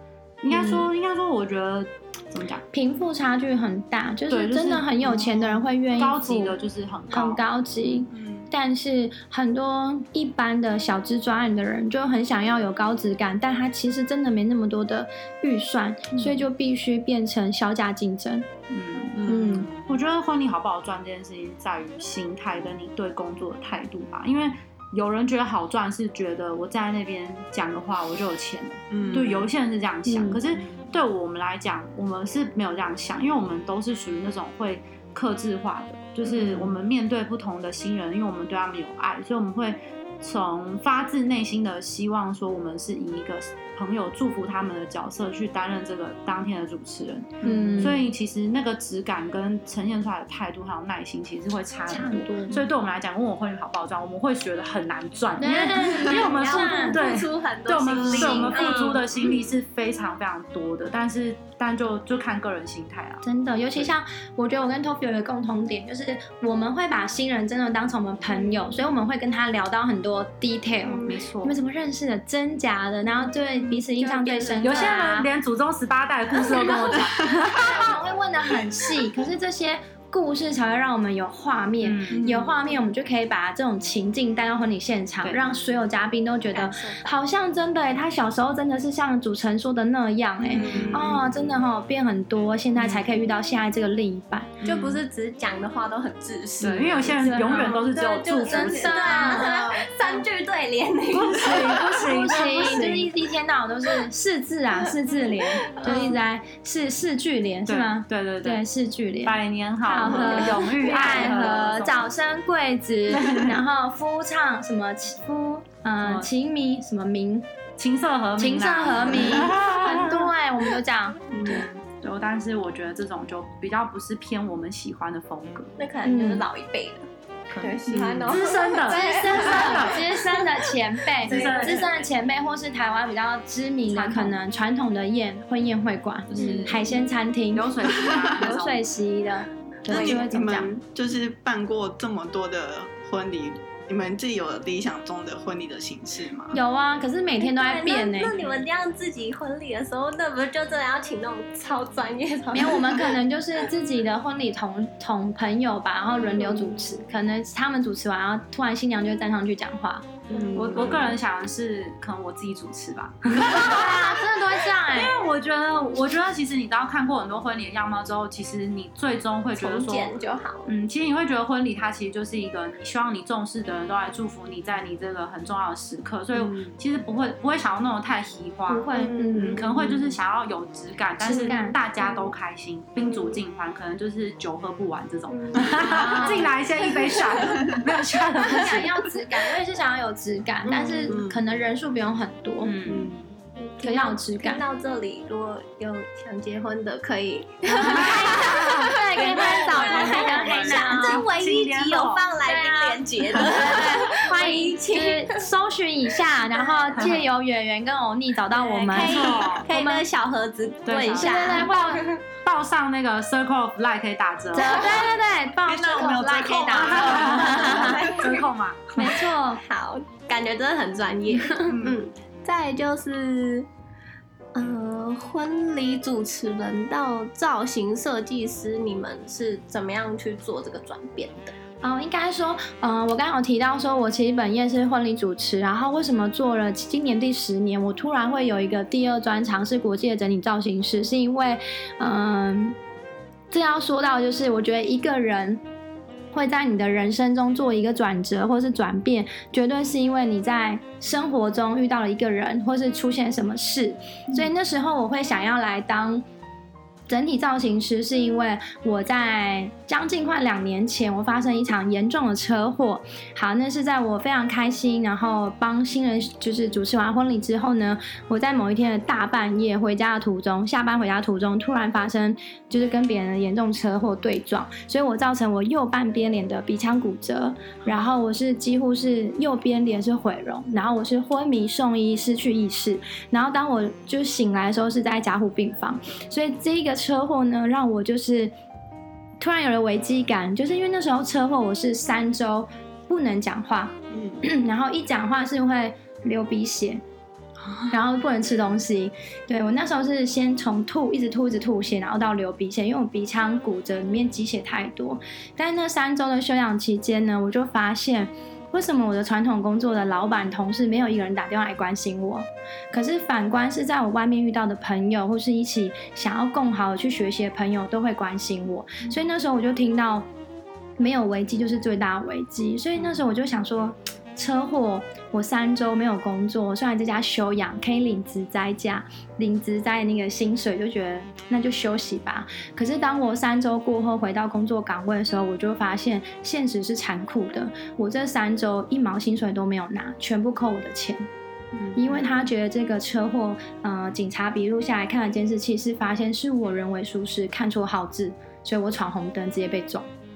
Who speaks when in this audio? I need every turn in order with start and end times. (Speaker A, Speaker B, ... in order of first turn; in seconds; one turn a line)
Speaker A: 0.4-2.6
Speaker B: 0.5-0.9
Speaker B: 2.7-6.6
Speaker A: 4.3-5.4
Speaker C: 5.0-5.6
Speaker A: 6.0-7.4
Speaker B: 7.1-18.4
Speaker C: 8.1-8.5
Speaker A: 18.7-63.2
Speaker C: 19.2-19.8
Speaker B: 19.3-19.7
Speaker C: 28.9-29.5
Speaker B: 30.1-30.4
Speaker C: 30.5-30.8
Speaker C: 36.2-36.8
Speaker C: 47.4-48.0
Speaker B: 47.4-48.0
Speaker B: 51.9-52.6
Speaker B: 55.4-57.0
Speaker D: 55.8-59.3
Speaker C: 57.9-59.4
Speaker B: 63.2-75.3
Speaker D: 70.8-71.2
Speaker A: 71.0-71.5
Speaker D: 73.8-75.1
Speaker A: 74.6-77.9
Speaker C: 77.2-77.8
Speaker B: 77.5-94.6
Speaker C: 78.5-78.8
Speaker A: 81.8-82.6
Speaker C: 82.1-82.6
Speaker D: 86.5-87.1
Speaker C: 90.4-91.4
Speaker A: 90.5-91.2
Speaker A: 92.8-93.1
Speaker A: 94.6-95.0
Speaker D: 94.6-103.0
Speaker A: 96.6-99.4
Speaker B: 97.2-99.6
Speaker C: 99.3-99.9
Speaker B: 101.1-117.5
Speaker A: 102.0-103.1
Speaker D: 105.7-106.2
Speaker A: 107.7-108.6
Speaker A: 109.2-112.0
Speaker D: 110.1-110.5
Speaker A: 113.1-113.5
Speaker A: 116.0-116.3
Speaker A: 117.8-120.3
Speaker B: 118.4-121.2
Speaker A: 121.3-125.7
Speaker C: 121.4-121.6
Speaker D: 125.8-130.4
Speaker B: 126.0-126.5
Speaker A: 127.5-130.2
Speaker B: 128.8-140.7
Speaker A: 131.2-132.0
Speaker D: 131.2-131.8
Speaker A: 133.9-134.4
Speaker A: 136.3-136.9
Speaker A: 137.5-138.8
Speaker C: 137.9-138.3
Speaker D: 139.9-140.3
Speaker C: 139.9-146.6
Speaker B: 146.5-148.3
Speaker D: 147.4-153.2
Speaker B: 152.5-160.1
Speaker D: 160.3-161.0
Speaker C: 160.3-161.2
Speaker A: 160.5-164.2
Speaker B: 163.3-165.1
Speaker A: 164.8-170.1
Speaker D: 169.6-170.7
Speaker A: 170.6-188.9
Speaker C: 176.3-176.7
Speaker B: 178.7-180.0
Speaker D: 178.9-179.6
Speaker B: 181.2-181.8
Speaker D: 182.0-182.3
Speaker D: 183.0-183.4
Speaker D: 185.3-186.5
Speaker B: 185.8-186.5
Speaker D: 187.0-187.4
Speaker B: 188.4-192.8
Speaker D: 190.7-191.2
Speaker C: 191.1-191.4
Speaker A: 192.6-193.2
Speaker C: 192.8-193.2
Speaker D: 193.6-205.4
Speaker B: 193.8-194.6
Speaker A: 197.7-202.3
Speaker B: 197.8-201.3
Speaker B: 202.4-210.0
Speaker D: 206.5-207.2
Speaker D: 208.5-212.2
Speaker A: 208.9-209.7
Speaker A: 210.8-214.9
Speaker B: 211.1-212.0
Speaker B: 214.5-218.1
Speaker C: 215.6-218.2
Speaker A: 216.7-219.0
Speaker D: 217.1-223.7
Speaker B: 219.0-219.6
Speaker C: 221.7-222.0
Speaker D: 224.5-231.5
Speaker B: 231.8-242.8
Speaker B: 243.5-245.6
Speaker B: 246.3-256.2
Speaker B: 257.1-288.5
Speaker B: 289.4-297.0
Speaker C: 294.1-294.4
Speaker C: 297.6-297.9
Speaker B: 297.9-320.2
Speaker B: 321.0-341.3
Speaker C: 341.8-342.2
Speaker B: 341.9-350.1